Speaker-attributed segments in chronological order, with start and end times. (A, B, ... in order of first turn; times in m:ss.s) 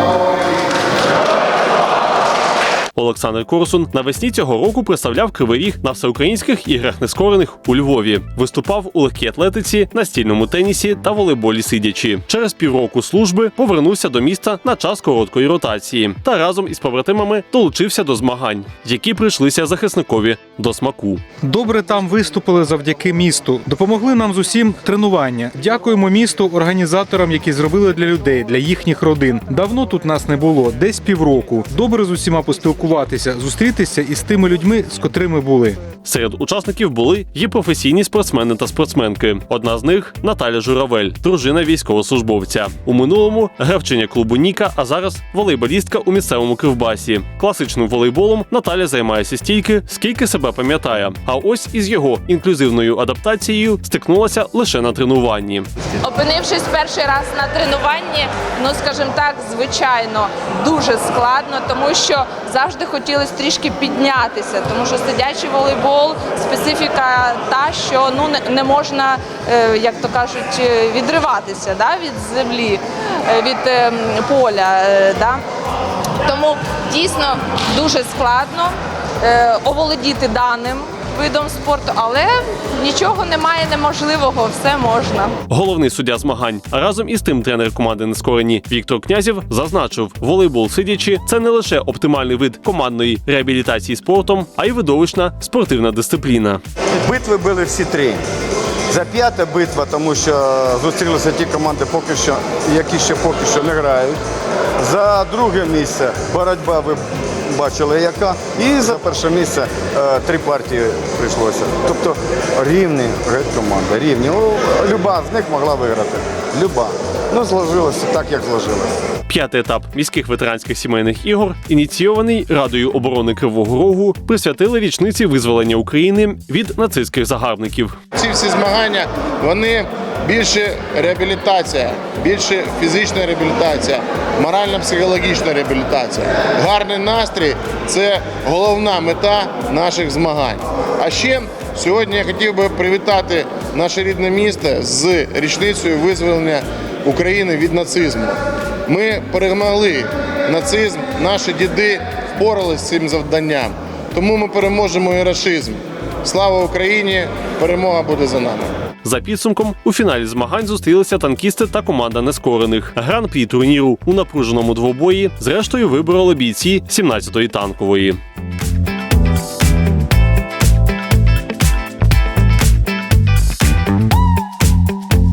0:02.9-0:21.2 A
0:21.4-0:35.8 B
0:36.0-0:55.7 A
0:56.0-1:15.4 C
1:16.2-1:25.4 C
1:25.5-1:36.6 A
1:37.0-1:38.2 D
1:38.9-1:44.2 D
1:44.8-1:59.0 D
1:59.3-2:08.0 A
2:08.2-2:38.7 E
2:39.0-2:48.2 A